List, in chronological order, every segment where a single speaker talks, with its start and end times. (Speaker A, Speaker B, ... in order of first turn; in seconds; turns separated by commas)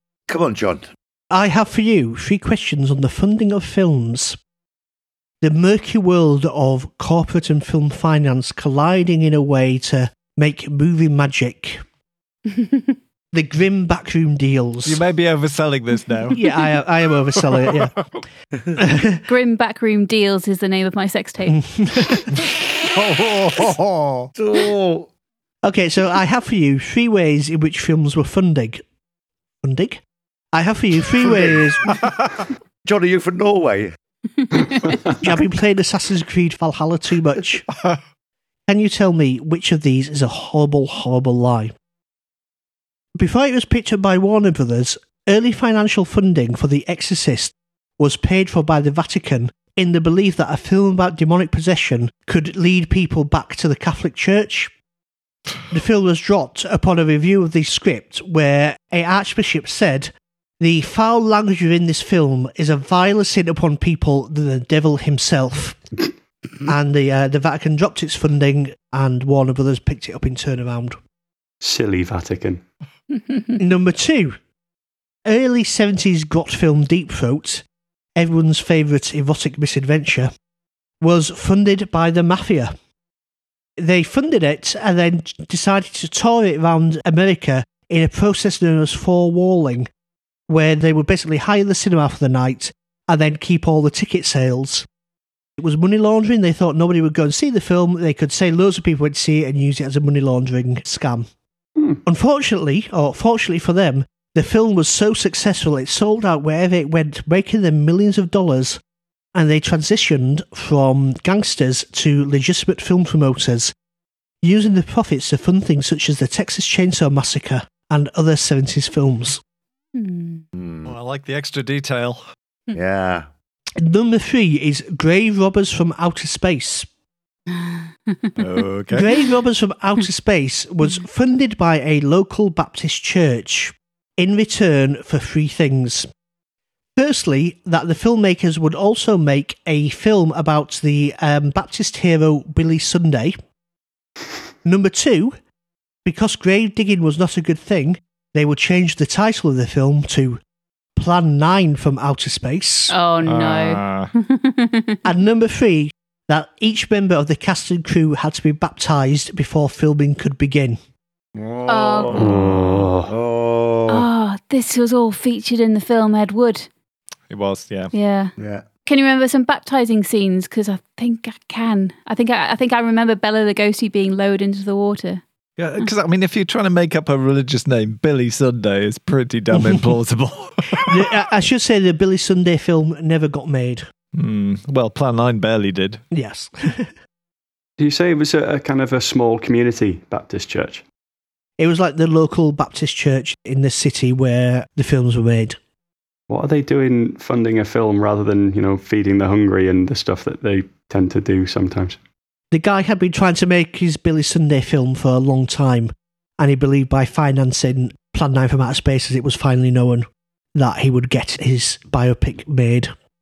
Speaker A: 0.3-0.9, Speaker B: 1.3-4.4, Speaker B: 5.4-11.8, Speaker B: 13.3-15.0, Speaker C: 14.8-16.4, Speaker B: 16.3-17.9, Speaker C: 17.4-18.0, Speaker B: 18.8-19.2, Speaker D: 19.2-21.6, Speaker B: 21.5-22.3, Speaker C: 22.9-24.3, Speaker A: 24.4-25.1, Speaker B: 25.6-28.8, Speaker B: 29.6-30.0, Speaker B: 30.5-32.0, Speaker A: 32.8-33.9, Speaker D: 34.5-35.0, Speaker B: 35.1-37.6, Speaker B: 38.7-41.7, Speaker B: 43.1-54.7, Speaker B: 55.7-65.8, Speaker B: 66.7-71.0, Speaker E: 71.6-72.6, Speaker B: 73.6-74.4, Speaker B: 75.2-77.6, Speaker B: 78.2-80.3, Speaker B: 81.0-82.7, Speaker B: 83.8-89.9, Speaker B: 90.5-94.8, Speaker B: 95.6-101.3, Speaker B: 102.0-108.8, Speaker B: 109.3-113.7, Speaker B: 114.4-119.4, Speaker D: 119.9-120.4, Speaker A: 120.5-120.9, Speaker C: 120.8-122.2, Speaker A: 122.7-123.3, Speaker B: 123.8-126.9, Speaker D: 127.6-128.3, Speaker C: 128.4-129.1, Speaker B: 128.9-136.1, Speaker B: 136.9-143.3, Speaker B: 144.6-145.4, Speaker B: 146.0-150.4, Speaker B: 150.9-152.9, Speaker D: 152.9-155.0, Speaker C: 153.2-154.1, Speaker B: 155.0-160.8, Speaker A: 161.3-164.1, Speaker D: 161.7-162.2, Speaker E: 162.1-163.1, Speaker C: 162.2-162.9, Speaker D: 163.9-166.7, Speaker C: 167.3-167.9, Speaker D: 167.9-168.3, Speaker A: 168.4-168.7, Speaker D: 168.8-175.2, Speaker C: 175.6-181.1, Speaker B: 179.5-179.8, Speaker B: 180.8-183.8, Speaker C: 184.1-186.0, Speaker B: 186.1-186.9, Speaker E: 187.8-190.8, Speaker B: 191.6-195.6, Speaker E: 196.3-202.0, Speaker B: 202.5-212.9